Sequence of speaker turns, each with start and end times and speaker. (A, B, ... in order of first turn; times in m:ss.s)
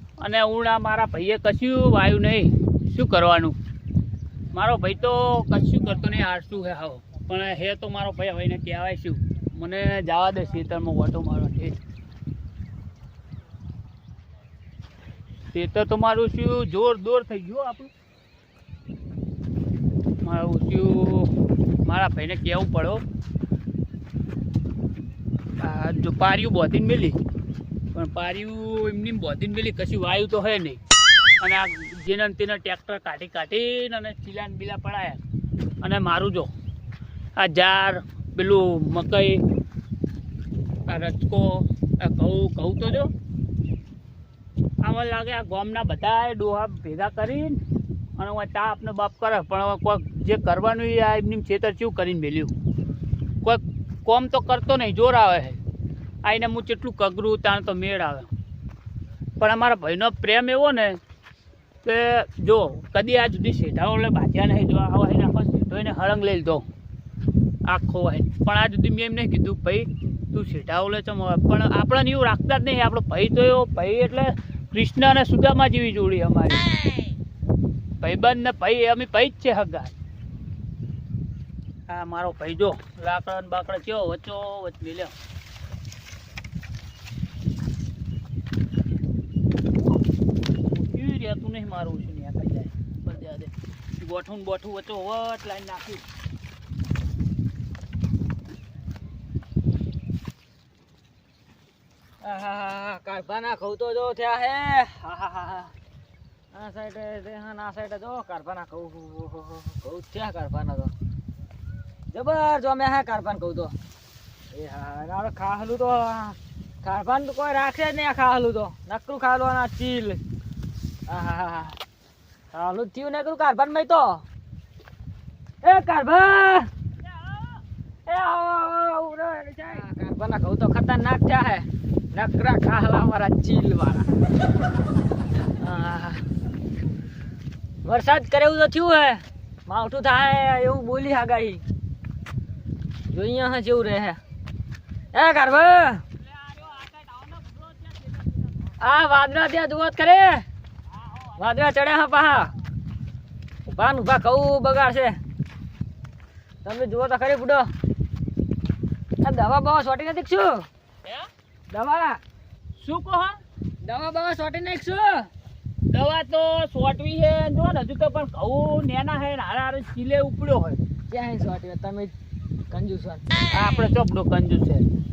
0:00.2-0:03.6 A
0:04.5-0:11.8 A
0:15.5-0:17.9 A
0:20.2-0:21.3 A
0:21.8-0:23.0 A
0:25.6-0:27.2 A
0:27.9-0:30.8 A
0:31.4-0:35.2 A
0:35.8-0:36.5 A
0:37.4-0:39.4 A
0:40.9-0:43.1 A
0:44.8-0:47.6 A
0:48.2-0:52.5 A
0:53.4-0:55.6 A
0:56.2-0:58.3 A
0:59.4-1:01.0 A
1:01.8-1:06.6 A
1:07.7-1:16.7 A
1:18.0-1:19.9 A
1:21.9-1:25.1 A
1:30.7-1:36.0 A
1:42.2-1:45.7 B
1:46.5-1:50.9 B
1:52.1-1:53.7 B
1:54.5-2:00.2 B
2:01.1-2:01.8 B
2:02.5-2:04.2 B
2:05.6-2:06.7 B
2:08.1-2:14.1 B
2:15.6-2:16.2 B
2:17.8-2:21.6 B
2:23.1-2:24.2 B
2:25.1-2:26.0 B
2:26.2-2:28.5 A
2:28.8-2:30.4 B
2:31.0-2:31.4 A
2:31.4-2:32.5 B
2:33.7-2:35.2 B
2:36.6-2:37.7 B
2:39.2-2:40.6 B
2:41.7-2:42.2 B
2:42.8-2:43.4 A
2:43.8-2:45.3 B
2:45.9-2:50.8 A
2:51.1-2:52.1 B
2:52.7-2:53.2 B
2:53.5-2:54.8 A